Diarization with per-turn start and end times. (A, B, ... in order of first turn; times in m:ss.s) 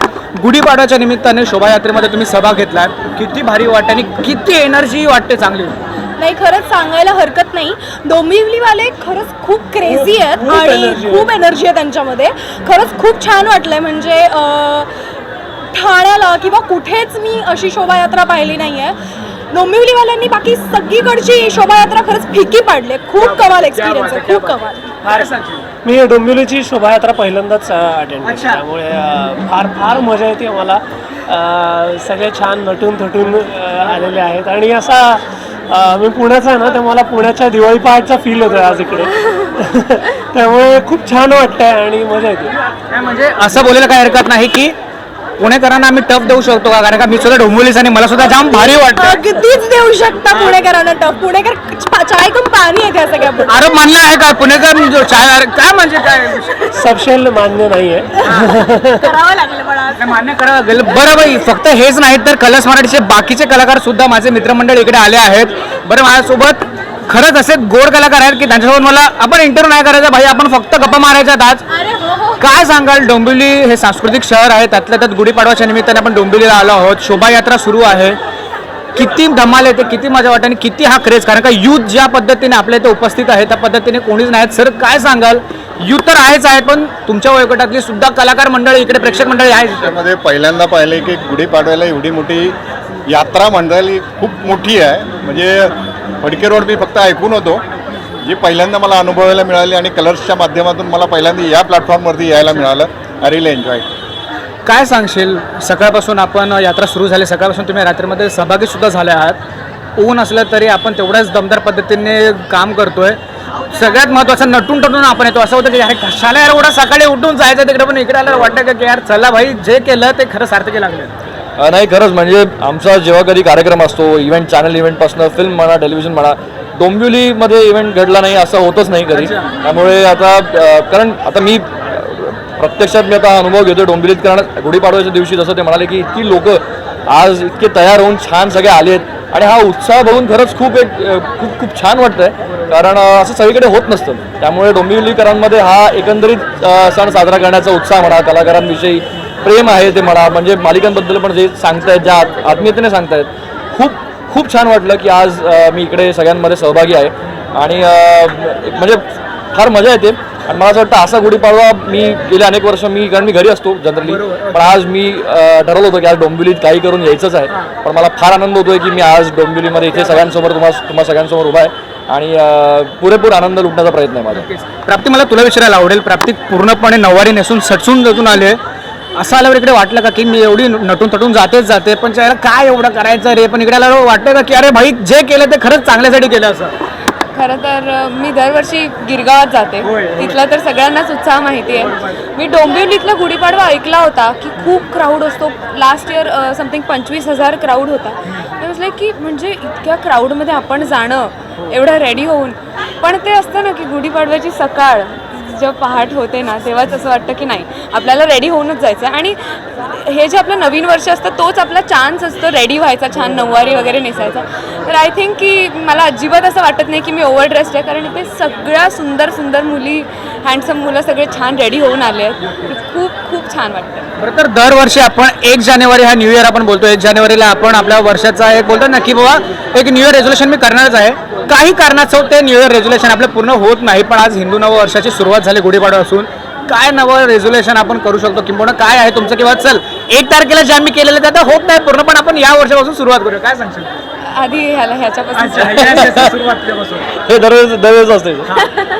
0:00.4-0:05.8 A
0:06.2-0:14.9 B
0:09.8-0:11.4 C
0:15.7-0:19.0 B
0:19.5-0:25.0 B
0:23.2-0:25.7 A
0:25.0-0:25.3 C
0:25.8-0:42.6 C
0:28.2-0:28.6 A
0:42.9-0:44.7 A
0:45.4-0:49.2 A
0:48.7-0:53.6 B
0:53.5-0:56.8 A
0:56.8-0:59.0 C
0:58.2-0:58.5 A
0:59.0-1:00.1 B
1:00.0-1:11.7 A
1:11.8-1:12.4 B
1:12.4-1:18.2 A
1:19.0-1:29.9 A
1:29.8-1:32.6 D
1:33.1-1:37.6 D
1:38.2-1:43.9 D
1:44.7-1:49.4 A
1:50.0-1:53.2 A
1:53.7-2:01.1 A
2:01.6-2:54.5 E
2:09.1-2:09.5 A
2:44.0-2:44.8 A
2:47.5-2:47.7 A
2:54.3-2:58.6 A
2:59.2-3:06.7 A
3:07.3-3:44.1 F
3:09.8-3:10.4 A
3:11.8-3:12.2 A
3:34.2-3:34.8 A
3:44.2-4:04.0 A
4:04.3-4:06.2 F
4:05.4-4:07.1 A
4:06.0-4:06.3 E
4:07.2-4:08.6 E